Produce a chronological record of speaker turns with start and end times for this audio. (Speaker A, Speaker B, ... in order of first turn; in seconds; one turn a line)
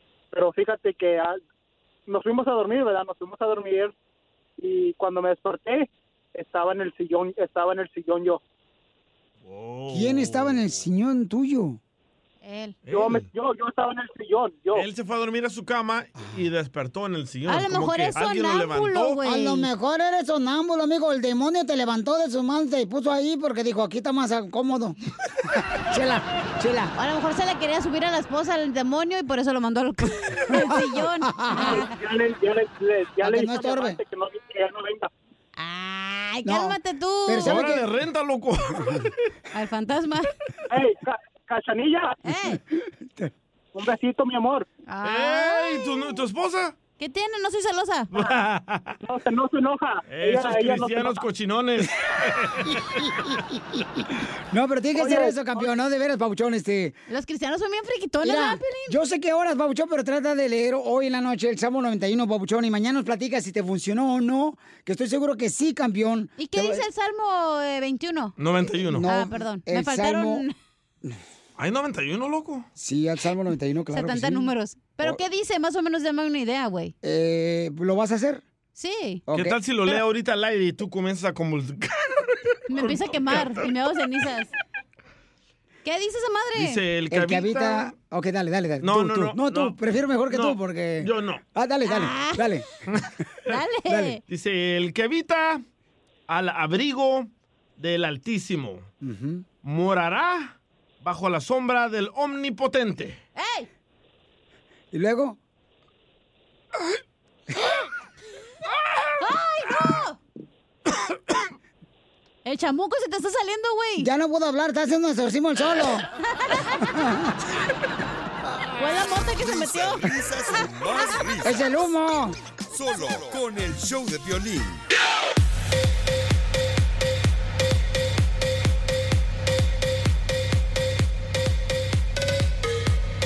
Speaker A: 0.3-1.4
Speaker A: 2.1-3.9
Speaker A: 4.6-8.4
Speaker B: 9.4-10.7
Speaker C: 9.9-11.8
Speaker D: 12.4-12.8
Speaker B: 12.9-13.2
Speaker A: 12.9-14.9
Speaker B: 14.8-19.2
Speaker D: 17.5-19.7
Speaker C: 19.2-25.0
Speaker C: 25.9-26.9
Speaker D: 27.0-31.9
Speaker C: 30.6-31.9
Speaker A: 31.6-35.1
Speaker C: 33.2-34.0
Speaker D: 35.6-37.6
Speaker C: 36.5-37.9
Speaker B: 37.4-39.1
Speaker D: 39.5-40.3
Speaker A: 40.7-42.2
Speaker D: 42.2-42.6
Speaker A: 43.7-44.7
Speaker D: 44.9-46.0
Speaker B: 45.0-46.8
Speaker D: 47.0-48.1
Speaker B: 48.1-48.9
Speaker A: 49.0-51.2
Speaker B: 50.1-52.8
Speaker C: 54.5-57.0
Speaker A: 55.0-55.7
Speaker D: 57.1-59.0
Speaker C: 58.2-66.8
Speaker D: 66.4-68.3
Speaker B: 68.4-69.1
Speaker C: 68.8-70.5
Speaker D: 69.0-70.5
Speaker B: 71.6-72.7
Speaker C: 72.8-75.2
Speaker D: 73.9-76.9
Speaker C: 77.0-78.4
Speaker D: 78.8-79.2
Speaker C: 79.3-79.6
Speaker B: 79.3-83.6
Speaker D: 82.7-84.5
Speaker D: 85.8-86.8
Speaker B: 86.5-87.9
Speaker C: 87.1-92.6
Speaker B: 88.8-89.8
Speaker B: 90.3-91.4
Speaker D: 91.9-92.5
Speaker D: 93.5-94.2
Speaker C: 93.9-94.2
Speaker B: 94.3-95.6
Speaker B: 96.3-98.9
Speaker C: 99.0-99.4
Speaker B: 99.6-103.2
Speaker D: 103.4-103.7
Speaker C: 104.9-105.4
Speaker D: 109.2-110.2
Speaker D: 112.5-114.1
Speaker C: 114.0-116.0
Speaker C: 116.8-117.2
Speaker D: 118.8-120.0
Speaker E: 119.3-121.8
Speaker C: 121.4-122.3
Speaker E: 122.7-124.8